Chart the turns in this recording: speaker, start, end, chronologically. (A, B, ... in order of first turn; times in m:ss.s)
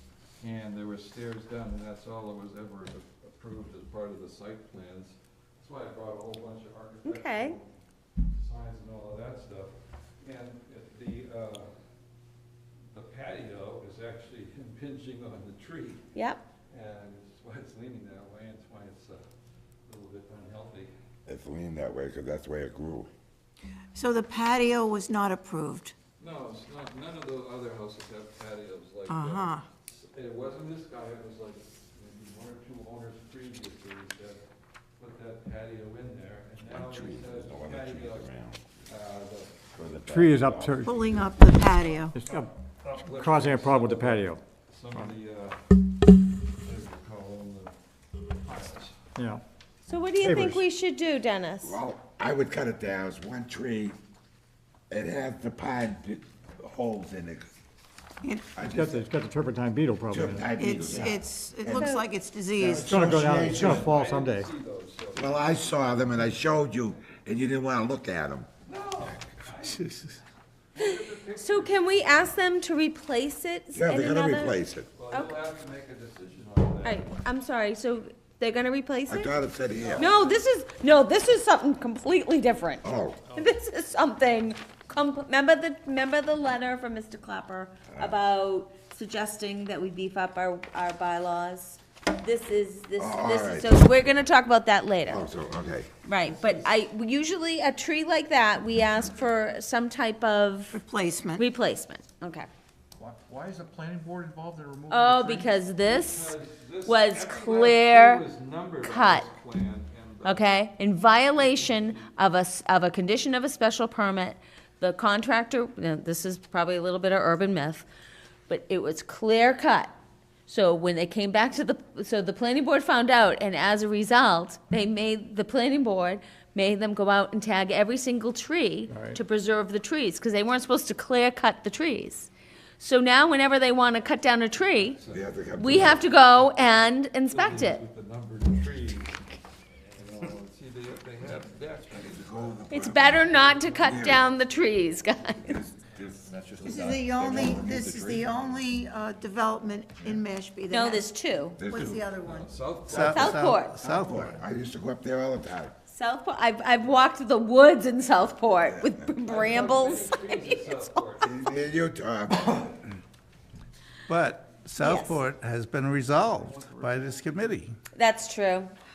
0:00.4-0:11.9 A
0:07.0-0:07.6 B
0:12.9-0:16.1 A
0:16.1-0:16.4 B
0:16.7-0:19.2 A
0:19.8-0:20.9 A
0:21.2-0:23.1 C
0:23.9-0:25.9 D
0:26.2-0:34.4 A
0:29.1-0:29.6 D
0:35.0-0:38.3 A
0:36.6-0:38.7 C
0:38.8-0:39.8 A
0:39.7-0:41.3 C
0:40.0-0:41.0 E
0:40.8-0:42.2 D
0:41.7-0:45.6 A
0:42.1-0:42.5 E
0:43.0-0:44.4 E
0:46.6-0:47.7 A
0:48.4-0:49.0 A
0:49.2-0:49.4 E
0:49.8-0:51.8 B
0:50.2-0:50.6 E
0:51.6-0:54.0 C
0:54.9-0:57.5 C
0:58.2-0:58.5 D
0:58.6-0:59.1 C
0:58.7-1:00.5 E
1:00.1-1:01.9 C
1:00.6-1:03.0 D
1:01.6-1:02.0 B
1:02.6-1:03.9 C
1:02.7-1:04.5 E
1:03.4-1:06.0 A
1:05.1-1:08.5 C
1:08.6-1:10.0 A
1:09.7-1:10.2 F
1:10.7-1:12.3 A
1:10.8-1:14.6 B
1:13.7-1:14.9 C
1:14.9-1:17.1 A
1:15.1-1:15.4 B
1:16.8-1:19.3 B
1:19.1-1:20.1 C
1:19.7-1:20.4 A
1:20.0-1:35.2 B
1:22.8-1:23.2 C
1:27.9-1:28.2 C
1:33.0-1:33.8 C
1:35.1-1:35.9 C
1:36.0-1:40.8 B
1:36.2-1:36.7 A
1:40.7-1:41.4 D
1:41.4-1:42.5 B
1:43.0-1:45.5 G
1:43.0-1:43.5 A
1:44.9-1:46.3 B
1:45.7-1:52.1 A
1:46.8-1:48.2 B
1:48.8-1:49.3 B
1:50.2-1:57.8 B
1:58.5-1:59.9 B
2:00.5-2:15.0 B
2:08.9-2:09.2 E
2:14.7-2:19.2 A
2:15.1-2:16.0 C
2:15.6-2:17.8 B
2:19.9-2:28.3 A
2:21.9-2:24.3 C
2:22.7-2:25.6 B
2:25.4-2:28.6 C
2:26.6-2:31.1 D
2:30.7-2:31.6 B
2:31.6-2:32.0 C
2:31.6-2:32.5 D
2:32.2-2:33.5 A
2:32.9-2:34.3 F
2:32.9-2:33.8 B
2:33.8-2:35.7 C
2:35.9-2:40.8 B
2:38.4-2:39.2 C
2:39.2-2:41.3 A
2:41.2-2:42.8 C
2:44.1-2:47.8 F
2:44.8-2:45.2 B
2:46.0-2:47.5 A
2:47.9-2:48.7 B